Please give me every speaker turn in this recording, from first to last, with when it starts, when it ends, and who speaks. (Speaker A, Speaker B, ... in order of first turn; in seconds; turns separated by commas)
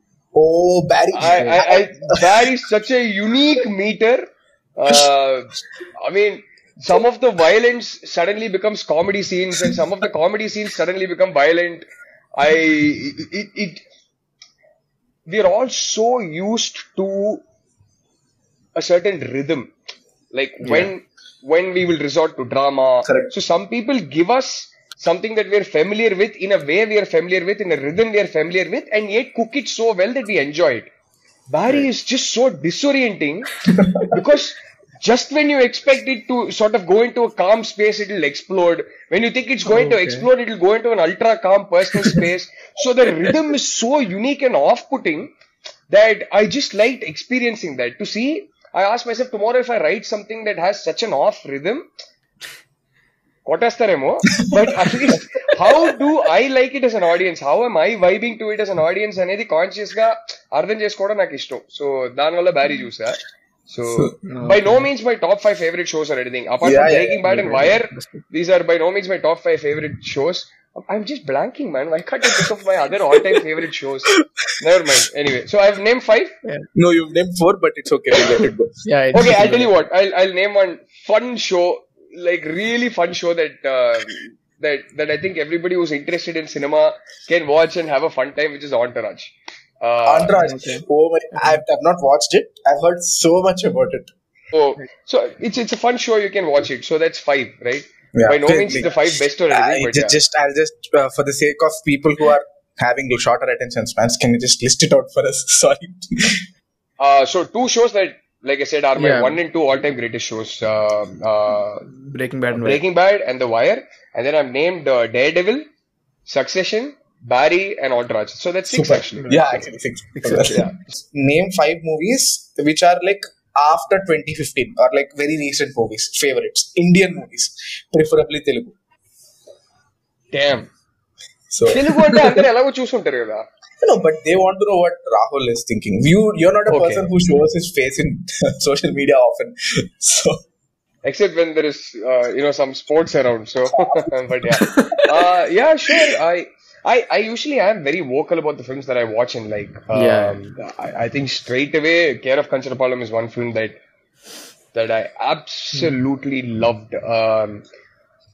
Speaker A: 0.3-2.5, Speaker B: 1.1-13.8, Speaker B: 15.3-17.4, Speaker B: 18.8-19.7, Speaker B: 20.3-30.9, Speaker C: 20.6-20.9, Speaker A: 23.1-23.3, Speaker B: 31.5-33.5, Speaker A: 33.8-34.1, Speaker B: 34.0-45.3, Speaker C: 39.7-40.3, Speaker B: 45.9-51.9, Speaker B: 53.5-76.3, Speaker C: 64.2-64.9, Speaker A: 66.6-67.2, Speaker C: 67.3-68.2, Speaker A: 76.8-78.8, Speaker C: 78.8-79.7, Speaker B: 79.1-90.4, Speaker A: 90.1-94.1, Speaker C: 90.3-90.8, Speaker C: 91.4-91.6, Speaker B: 94.5-100.2, Speaker A: 98.2-106.5, Speaker B: 107.0-111.9, Speaker C: 109.0-109.4, Speaker C: 111.9-112.8, Speaker B: 112.5-115.6, Speaker B: 116.3-119.6, Speaker A: 118.7-128.8, Speaker C: 119.2-119.5, Speaker C: 120.1-120.7, Speaker B: 120.5-120.8, Speaker B: 130.3-130.7, Speaker A: 131.5-132.4, Speaker B: 131.7-133.5, Speaker A: 133.8-140.4, Speaker B: 136.7-137.1, Speaker B: 141.1-153.8, Speaker C: 144.6-144.9, Speaker A: 144.7-145.1, Speaker C: 149.9-150.5, Speaker B: 154.7-157.7